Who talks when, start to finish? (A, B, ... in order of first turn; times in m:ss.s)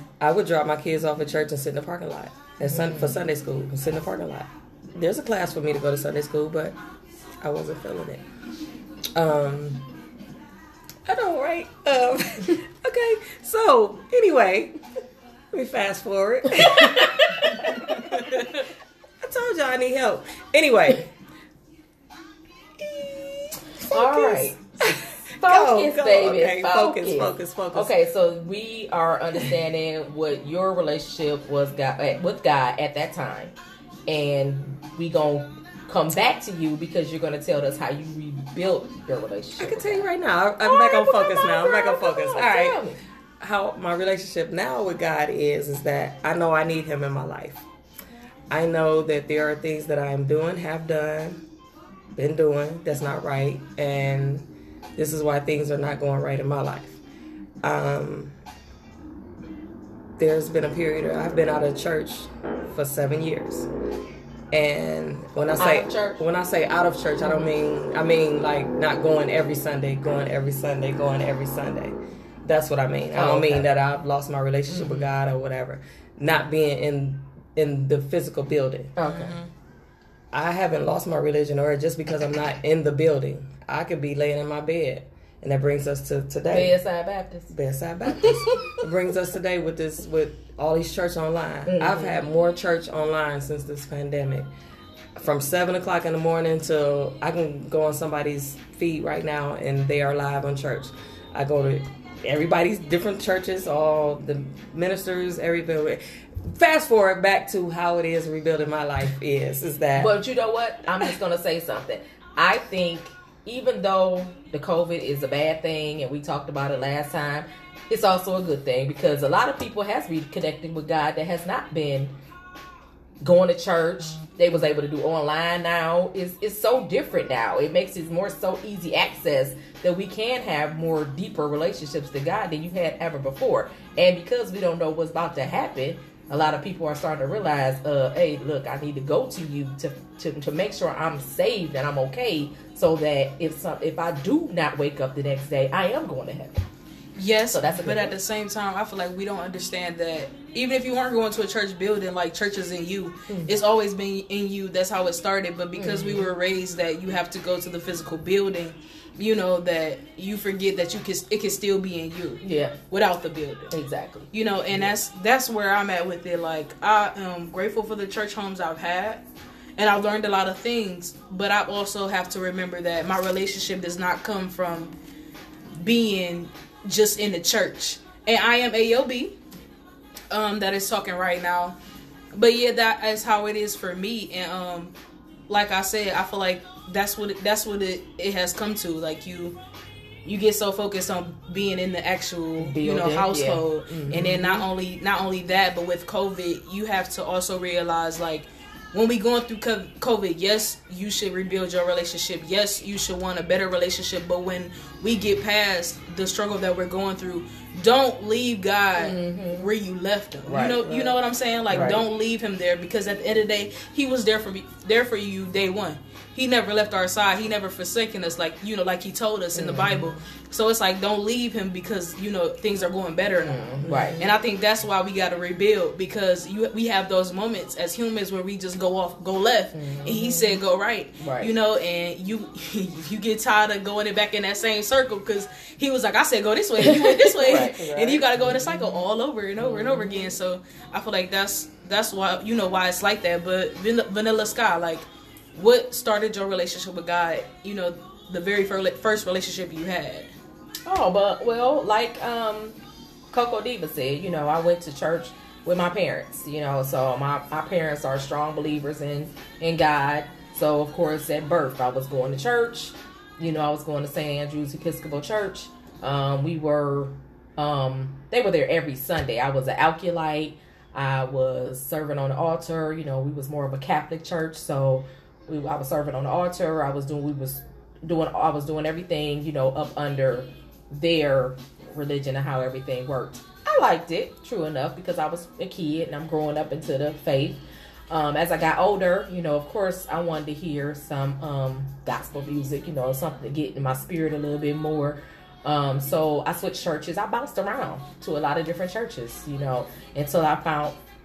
0:00.2-0:06.8 A
0:02.7-0:03.2 B
0:07.4-0:08.2 A
0:09.1-0:09.9 A
0:11.1-0:14.8 A
0:15.5-0:18.6 A
0:16.5-0:17.8 B
0:19.2-0:21.1 A
0:22.8-0:27.9 A
0:23.9-0:33.6 B
0:34.1-0:40.1 B
0:39.6-0:42.8 A
0:40.6-0:43.0 B
0:43.4-0:47.6 A
0:48.5-0:51.4 A
0:52.2-0:57.0 A
0:57.6-0:58.4 A
1:00.2-1:03.7 A
1:04.5-1:19.0 A
1:05.6-1:06.2 B
1:13.1-1:13.7 B
1:14.7-1:15.1 B
1:19.0-1:19.4 B
1:19.0-1:19.5 C
1:20.3-1:26.8 A
1:26.5-1:27.5 B
1:27.5-1:34.5 A
1:28.2-1:28.7 B
1:31.7-1:32.2 B
1:35.2-1:50.2 A
1:50.0-2:02.1 B
2:03.2-2:26.6 B
2:27.2-2:43.7 C
2:27.5-2:28.1 B
2:35.8-2:36.3 B
2:42.4-2:42.8 B
2:43.7-2:44.3 B
2:44.3-2:49.2 C
2:49.8-2:54.9 C
2:55.8-2:59.4 C
3:00.3-3:01.8 C
3:02.3-3:04.9 C
3:05.5-3:09.6 C
3:10.2-4:10.3 C
3:12.6-3:14.6 B
3:29.0-3:29.7 B
3:30.5-3:31.2 B
3:31.7-3:32.0 B
3:39.6-3:40.2 B
3:43.4-3:44.3 B
3:43.9-3:44.2 A
3:49.7-3:50.6 B
3:51.2-3:51.5 B
3:56.8-3:57.8 B
3:57.5-3:58.6 A
3:59.6-4:00.3 B
4:10.9-4:12.8 B
4:13.3-5:01.0 B